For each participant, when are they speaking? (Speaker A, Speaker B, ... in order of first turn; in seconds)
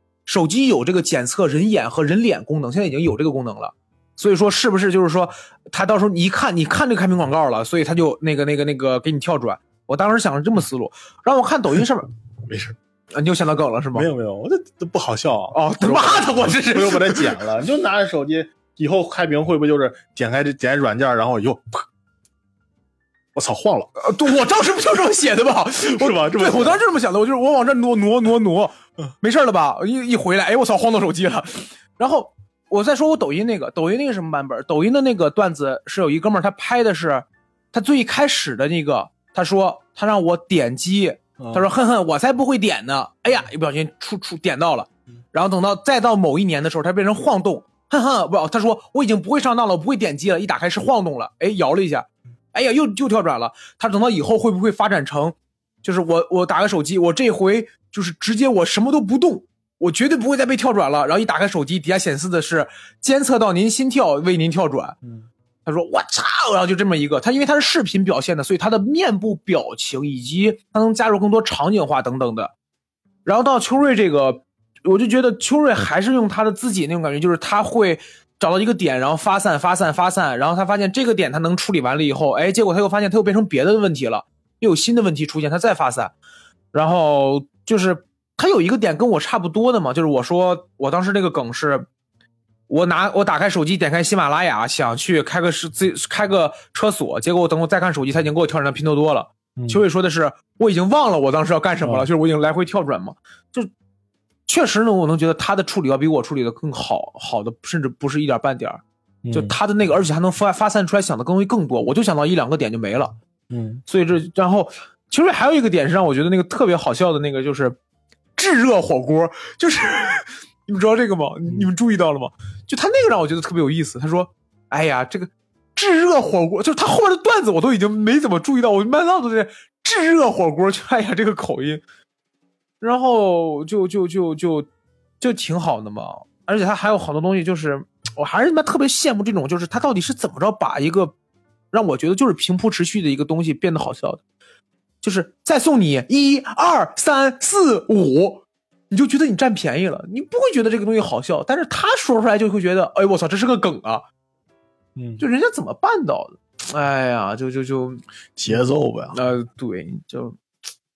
Speaker A: 0.2-12.1, 13.1-14.1, 15.5-17.4, 24.0-65.0, 65.7-72.5, 73.2-86.1, 86.7-91.9, 92.7-103.7, 104.5-113.2, 113.8-117.8, 118.4-131.8, 132.8-134.7, 135.2-141.1, 141.7-144.2, 145.0-154.1, 155.2-158.0, 159.1-160.4
Speaker B: 12.4-12.8, 13.9-21.9, 23.3-23.9, 25.8-26.8, 41.4-41.7, 99.5-99.8, 101.8-102.1, 109.2-109.5, 113.5-113.8, 154.9-155.2, 158.4-159.2